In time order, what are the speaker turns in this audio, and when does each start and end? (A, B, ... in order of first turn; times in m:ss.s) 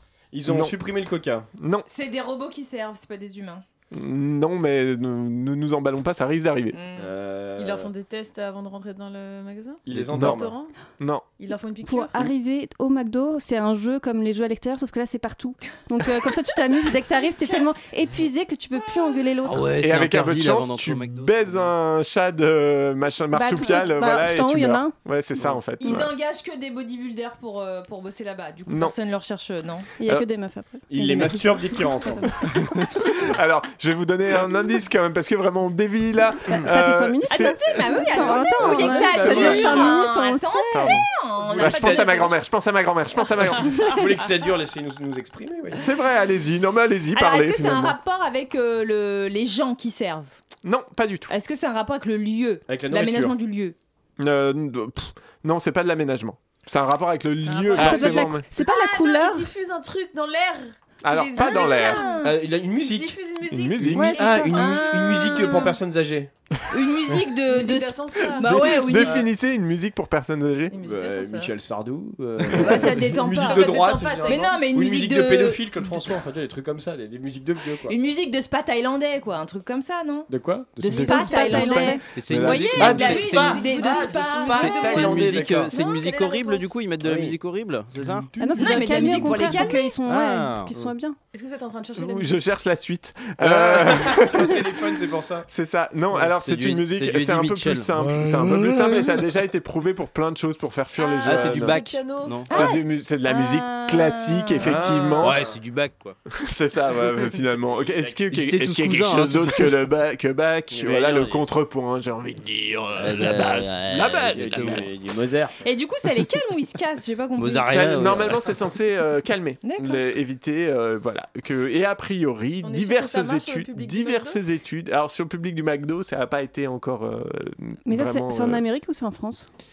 0:00.3-0:01.4 A
0:00.5-0:00.7 B
0:01.6-0:01.8 B
0:01.9-0:03.6 C
0:03.9-0:06.8 B
0:06.7-0:07.1 C
0:07.0-0:07.9 A
0:07.6-0:10.7 D
0:09.8-0:10.6 A
0:10.1-0:10.4 B
0:11.0-0:11.3 B
0:11.4-0:12.3 D
0:11.8-0:19.7 E
0:16.9-0:17.8 C
0:19.4-0:21.7 F
0:19.8-0:26.1 B
0:23.3-0:24.9 E
0:25.8-0:29.9 C
0:28.7-0:28.9 B
0:30.0-0:32.3 E
0:30.9-0:32.3 A
0:32.8-0:38.6 B
0:36.7-0:41.0 E
0:37.3-0:42.3 C
0:38.5-0:40.0 A
0:40.7-0:41.0 B
0:41.4-0:42.3 A
0:41.6-0:43.8 B
0:43.3-0:43.9 C
0:43.8-0:45.8 A
0:45.7-0:48.0 B
0:47.1-0:50.3 C
0:50.6-0:51.3 B
0:51.3-0:53.8 C
0:52.7-0:53.3 A
0:54.2-0:58.4 B
0:57.4-1:05.7 D
0:57.7-0:59.5 E
0:57.8-0:58.1 A
1:01.0-1:02.0 B
1:01.4-1:02.4 C
1:02.2-1:03.2 A
1:03.4-1:04.2 B
1:03.8-1:06.3 A
1:04.0-1:04.5 E
1:04.2-1:05.8 C
1:06.7-1:09.2 C
1:07.4-1:08.8 D
1:08.4-1:10.7 B
1:10.7-1:11.5 D
1:10.8-1:17.9 A
1:12.4-1:12.9 B
1:12.5-1:15.9 C
1:13.3-1:14.7 D
1:17.8-1:26.8 C
1:20.3-1:21.6 A
1:20.8-1:23.0 B
1:21.0-1:22.0 E
1:22.1-1:23.5 F
1:22.8-1:25.7 A
1:23.0-1:25.2 D
1:24.5-1:28.3 F
1:27.0-1:27.3 A
1:28.0-1:29.0 A
1:28.4-1:31.2 E
1:28.5-1:30.0 C
1:29.0-1:30.7 F
1:31.3-1:32.4 D
1:32.0-1:34.6 B
1:33.4-1:35.4 A
1:35.5-1:41.9 B
1:36.2-1:39.2 F
1:41.0-1:41.2 C
1:41.2-1:42.5 F
1:41.3-1:42.4 D
1:42.5-1:44.9 C
1:42.5-1:45.4 B
1:44.6-1:45.6 A
1:45.2-1:46.2 F
1:46.3-1:54.8 B
1:47.6-1:48.2 A
1:48.3-1:49.8 F
1:50.7-1:51.4 A
1:53.0-1:54.9 F
1:53.0-1:55.6 A
1:55.6-1:58.3 C
1:57.4-1:58.5 F
1:57.6-2:08.6 B
1:59.6-2:00.0 C
2:02.6-2:04.4 D
2:07.8-2:09.5 E